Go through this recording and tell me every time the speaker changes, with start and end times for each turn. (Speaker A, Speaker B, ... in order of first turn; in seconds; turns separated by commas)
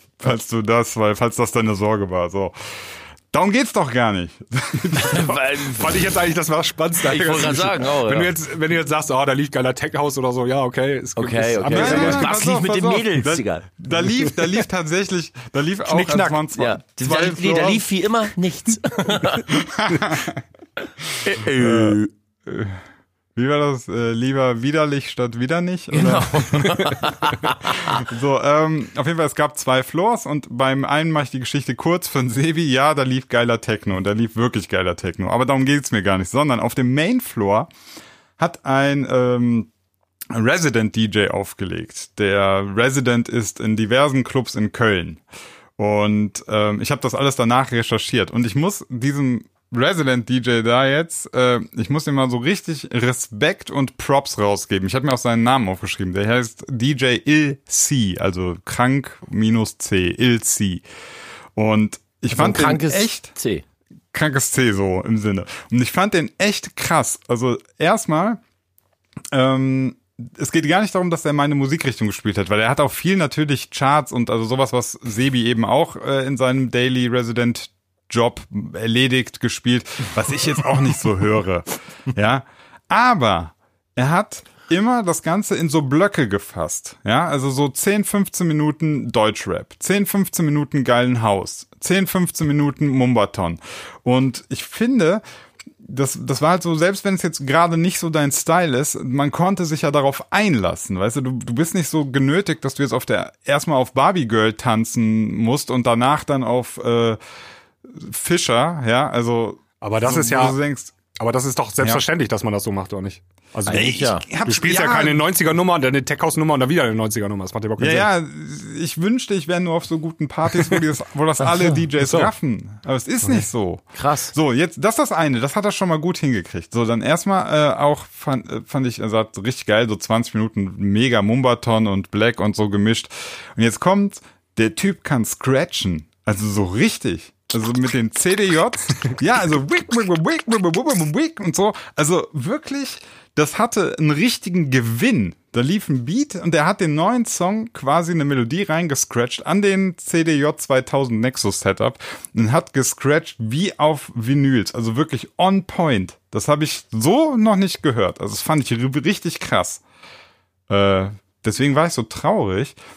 Speaker A: 0.2-5.4, Speaker B: 5.0-6.0, Speaker C: 5.8-12.4, Speaker B: 7.0-8.3, Speaker B: 11.2-13.7, Speaker A: 11.7-17.9, Speaker B: 15.9-19.5, Speaker A: 19.5-20.4, Speaker B: 21.2-22.1, Speaker A: 21.6-22.8, Speaker A: 23.4-27.1, Speaker B: 25.9-28.0, Speaker A: 27.9-37.7, Speaker A: 38.4-39.7, Speaker A: 40.3-45.2, Speaker A: 45.8-60.8, Speaker A: 61.5-63.3, Speaker B: 62.3-63.6, Speaker A: 64.1-68.4, Speaker A: 69.3-95.2, Speaker A: 95.8-107.2, Speaker A: 107.9-111.0, Speaker C: 109.8-110.6, Speaker C: 111.1-118.1, Speaker B: 113.7-114.2, Speaker A: 113.7-115.3, Speaker A: 117.8-159.8, Speaker C: 122.0-122.3, Speaker B: 124.0-124.3, Speaker A: 160.7-162.8